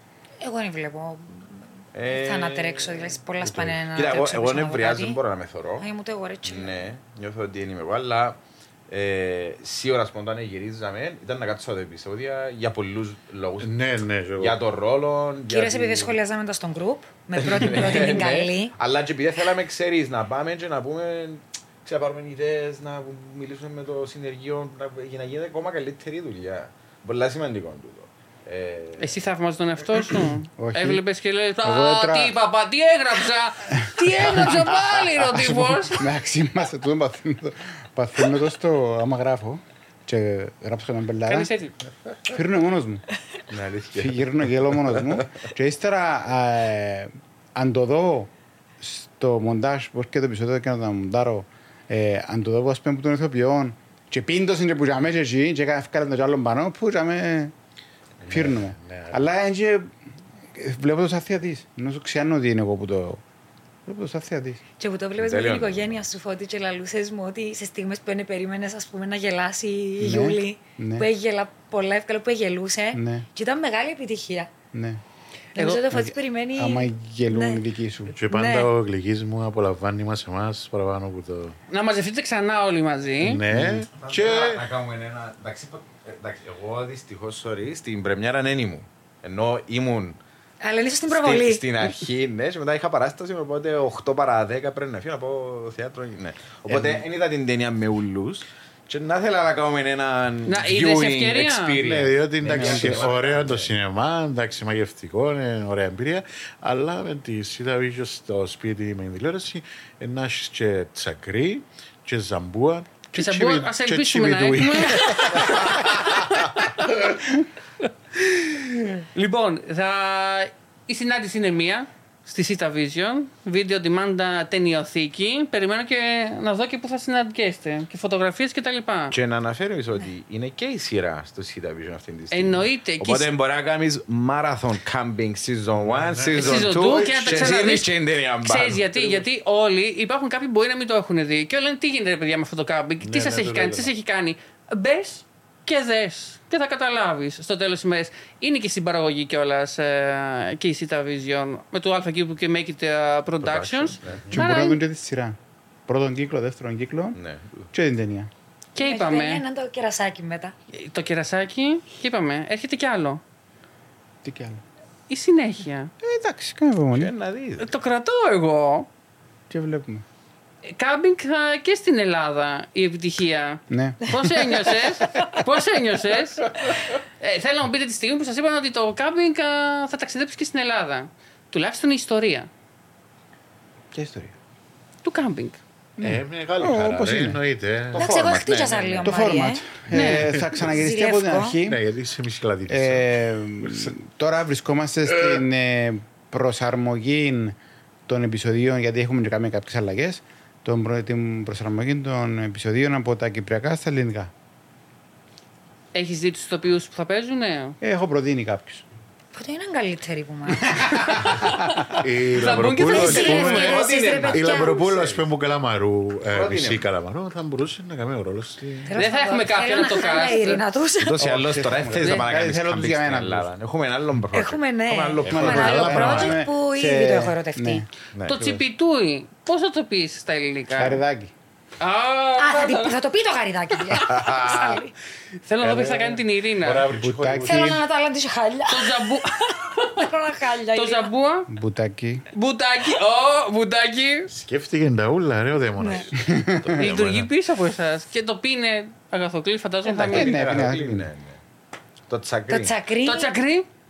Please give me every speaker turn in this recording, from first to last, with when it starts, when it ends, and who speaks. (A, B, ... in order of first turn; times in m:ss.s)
0:00.4-0:05.2 A
0:01.9-0:05.9 B
0:03.5-0:03.8 C
0:05.8-0:06.9 A
0:06.4-0:13.7 B
0:13.6-0:14.6 C
0:14.4-0:16.2 B
0:15.5-0:18.7 A
0:17.4-0:29.2 B
0:29.0-0:36.1 D
0:30.3-0:31.0 E
0:31.6-0:32.4 E
0:33.7-0:41.5 E
0:41.3-0:41.7 D
0:42.2-0:43.0 E
0:43.5-0:45.3 B
0:44.0-0:57.5 E
0:58.2-0:59.2 C
0:58.3-0:59.9 E
1:00.5-1:03.2 E
1:03.9-1:04.6 E
1:04.8-1:14.5 A
1:05.2-1:06.0 B
1:10.0-1:11.1 E
1:12.9-1:13.2 E
1:14.7-1:15.0 E
1:15.5-1:17.6 A
1:15.6-1:15.8 D
1:15.9-1:18.1 E
1:18.1-1:21.6 C
1:18.2-1:18.7 A
1:21.7-1:23.4 D
1:23.2-1:24.6 C
1:23.5-1:23.9 E
1:23.9-1:30.2 B
1:30.6-1:31.6 A
1:31.1-1:43.7 B
1:40.4-1:41.8 D
1:41.8-1:56.4 C
1:42.5-1:43.1 E
1:53.1-1:56.4 D
1:58.2-2:09.1 D
2:09.1-2:19.2 B
2:12.3-2:13.3 D
2:15.8-2:17.7 C
2:16.3-2:17.9 D
2:18.4-2:34.8 D
2:23.0-2:23.9 C
2:33.4-2:34.3 B
2:34.3-2:35.4 E
2:35.9-2:37.2 E
2:37.1-2:37.6 B
2:37.7-2:38.3 E
2:38.7-2:39.4 D
2:38.8-2:40.6 A
2:40.7-2:43.2 D
2:44.2-2:44.6 E
2:45.1-2:45.9 D
2:46.0-2:47.1 E
2:46.9-2:47.7 B
2:47.6-2:48.9 D
2:49.5-2:50.0 E
2:50.6-3:02.5 D
2:53.7-2:54.9 E
3:03.9-3:04.3 E
3:05.0-3:05.6 D
3:06.0-3:07.4 E
3:06.0-3:08.4 C
3:07.9-3:09.1 B
3:08.0-3:09.7 A
3:09.0-3:11.8 E
3:09.9-3:10.3 D
3:10.0-3:10.7 C
3:10.7-3:11.6 A
3:11.6-3:13.1 C
3:12.7-3:24.3 E
3:13.6-3:13.9 C
3:25.9-3:27.8 D
3:27.8-3:28.9 E
3:29.3-3:31.5 A
3:30.5-3:31.9 E
3:31.9-3:38.9 C
3:32.3-3:34.4 D
3:32.8-3:35.0 A
3:34.2-3:35.2 B
3:36.3-3:36.9 B
3:38.9-3:41.2 A
3:38.9-3:40.6 D
3:41.0-3:46.1 B
3:41.2-3:43.5 E
3:44.3-3:47.9 A
3:45.2-3:46.4 C
3:45.3-3:47.9 E
3:48.1-3:48.6 B
3:48.2-3:51.0 D
3:50.8-3:51.3 E
3:51.8-3:53.0 D
3:52.4-3:54.9 A
3:53.9-3:54.8 B
3:55.5-3:56.9 D
3:55.6-3:57.8 C
3:56.9-3:57.8 E
3:57.4-3:59.2 A
3:58.7-4:00.1 D
3:59.8-4:01.1 A
4:00.7-4:01.5 D
4:01.5-4:02.2 E
4:02.3-4:04.3 D
4:04.3-4:06.2 C
4:05.8-4:06.1 A
4:06.2-4:06.8 E
4:06.6-4:07.3 B
4:06.8-4:10.4 D
4:09.8-4:11.1 E
4:10.0-4:11.4 B
4:12.1-4:12.7 B
4:12.5-4:13.3 A
4:13.0-4:13.7 D